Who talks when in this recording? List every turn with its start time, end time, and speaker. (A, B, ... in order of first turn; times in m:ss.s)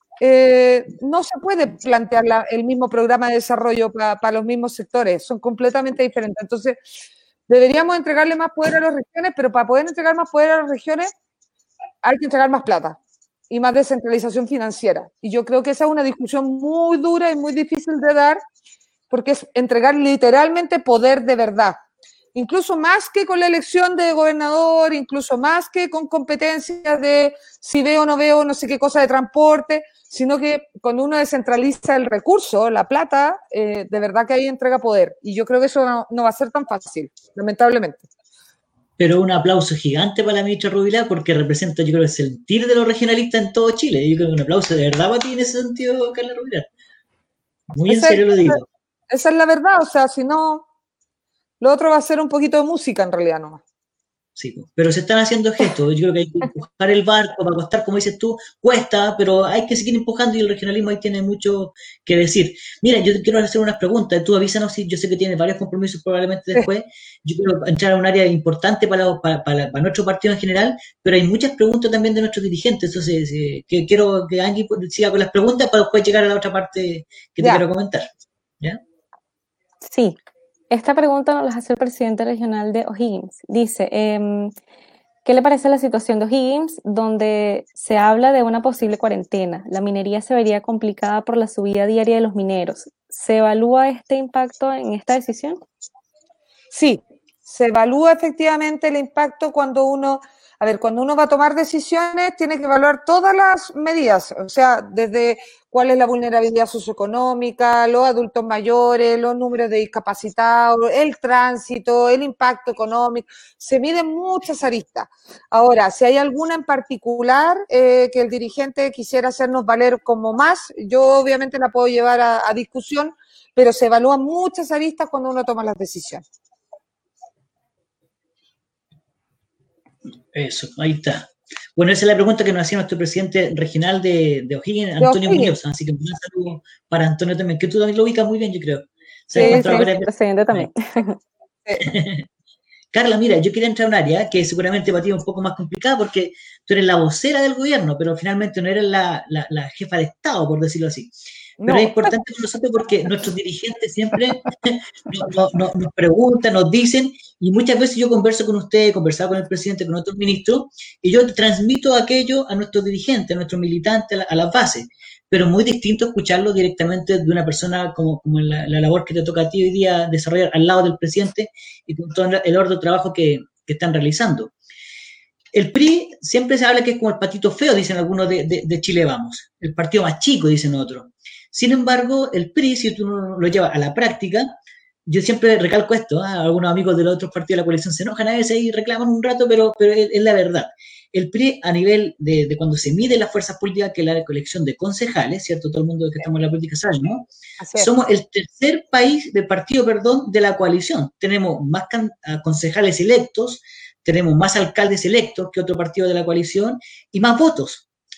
0:00.2-0:06.8 A
0:07.5-0:11.1 A
0:12.0-0:13.0 A
0:13.5-0:18.4 A
0:19.1-0:21.8 A
0:22.4-0:38.0 A
0:39.0-0:46.7 B
0:47.7-0:48.6 B
0:47.9-0:48.6 A
0:49.1-0:50.7 A
0:51.6-0:53.6 A
0:54.4-1:18.1 B
1:19.8-1:20.2 C
1:20.7-1:24.5 C
1:25.2-1:35.6 C
1:36.7-2:06.2 A
2:10.3-2:20.7 B
2:15.0-2:15.5 A
2:19.3-2:19.9 A
2:19.4-2:21.2 C
2:21.8-2:22.3 B
2:22.9-2:31.1 B
2:31.6-2:32.2 A
2:31.7-2:54.5 B
2:55.5-3:04.5 B
3:05.1-3:27.8 B
3:17.6-3:17.9 A